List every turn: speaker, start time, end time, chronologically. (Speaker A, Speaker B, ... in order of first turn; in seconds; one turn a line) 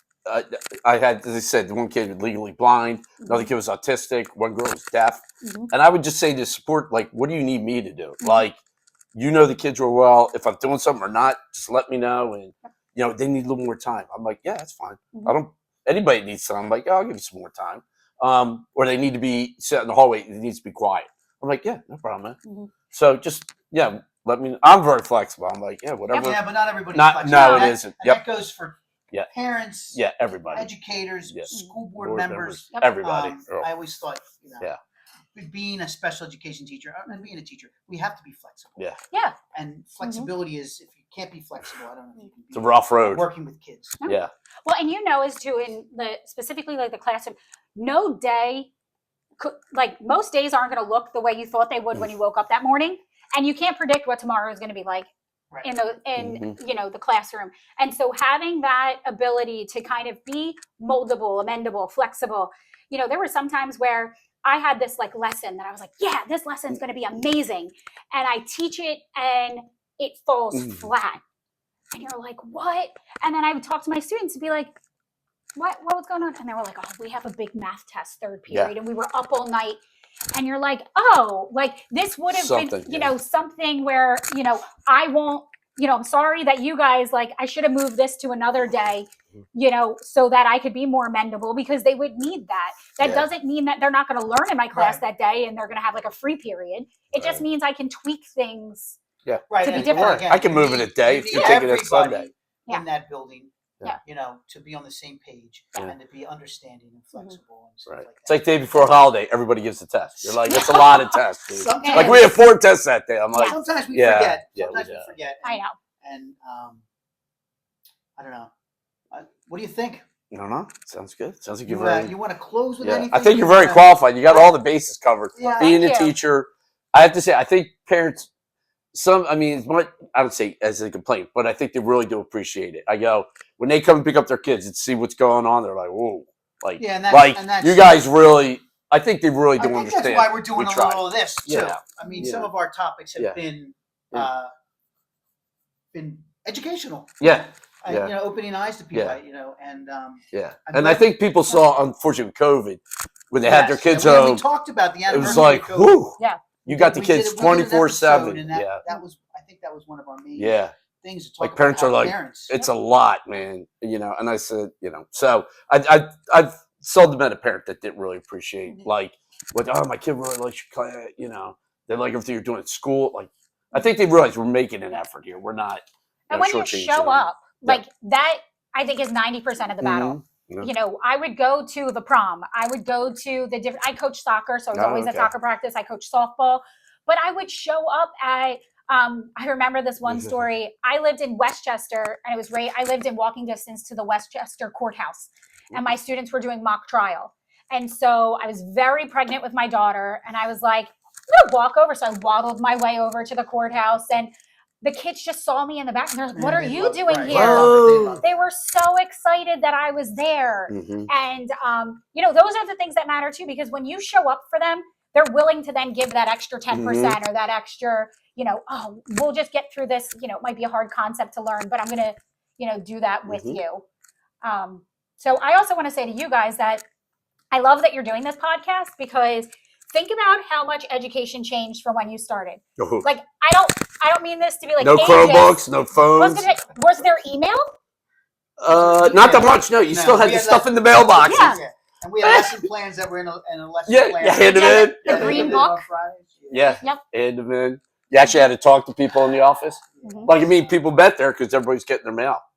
Speaker A: 0.2-8.6
Speaker B: 3.2-3.5
Speaker B: 5.4-5.7
Speaker B: 8.2-8.5
Speaker A: 9.1-22.4
Speaker B: 22.4-22.7
Speaker A: 22.9-26.4
Speaker C: 26.2-28.8
Speaker A: 26.9-28.2
Speaker B: 27.3-27.8
Speaker C: 29.3-30.0
Speaker A: 29.9-30.7
Speaker C: 30.5-34.7
Speaker A: 31.3-33.7
Speaker C: 35.3-38.9
Speaker B: 39.1-39.4
Speaker C: 39.5-44.0
Speaker B: 40.0-40.3
Speaker A: 42.5-43.3
Speaker B: 44.0-48.7
Speaker A: 44.0-44.3
Speaker B: 49.4-55.1
Speaker B: 55.6-71.2
Speaker A: 56.2-56.5
Speaker A: 70.5-70.9
Speaker B: 71.9-74.7
Speaker B: 75.5-79.8
Speaker B: 80.3-99.0
Speaker A: 82.3-83.1
Speaker A: 93.0-93.2
Speaker C: 94.7-95.0
Speaker A: 97.1-97.4
Speaker A: 99.2-102.3
Speaker C: 99.5-108.9
Speaker B: 99.6-100.3
Speaker B: 101.3-101.6
Speaker A: 107.8-115.1
Speaker B: 110.4-111.2
Speaker C: 111.5-112.4
Speaker B: 111.8-112.3
Speaker B: 113.3-113.6
Speaker C: 113.5-116.8
Speaker B: 115.4-115.8
Speaker C: 118.2-118.5
Speaker C: 119.1-120.0
Speaker A: 120.3-122.1
Speaker C: 121.7-124.5
Speaker A: 122.8-128.3
Speaker C: 125.3-125.8
Speaker B: 125.5-126.1
Speaker A: 128.9-142.5
Speaker C: 136.8-138.1
Speaker C: 139.6-144.5
Speaker C: 145.9-151.1
Speaker A: 147.2-148.1
Speaker A: 148.9-149.2
Speaker A: 150.3-154.4
Speaker C: 153.4-156.0
Speaker A: 155.1-158.8
Speaker B: 155.2-155.6
Speaker B: 156.2-156.4
Speaker C: 156.7-162.6
Speaker A: 160.4-160.8
Speaker A: 161.4-177.8
Speaker B: 176.3-204.3
Speaker A: 179.8-180.7
Speaker A: 184.7-185.3
Speaker A: 190.0-190.3
Speaker B: 204.8-223.8
Speaker C: 206.3-208.2
Speaker A: 207.2-208.2
Speaker A: 210.7-211.1
Speaker A: 216.7-217.2
Speaker A: 223.3-223.6
Speaker B: 224.4-226.8
Speaker B: 227.5-235.6
Speaker A: 232.8-233.1
Speaker A: 234.8-236.4
Speaker B: 236.1-237.6
Speaker A: 238.6-241.6
Speaker C: 238.7-246.8
Speaker B: 241.2-241.6
Speaker A: 242.2-242.7
Speaker A: 243.9-245.6
Speaker B: 244.4-245.8
Speaker A: 246.5-252.4
Speaker C: 249.9-250.4
Speaker B: 250.0-250.3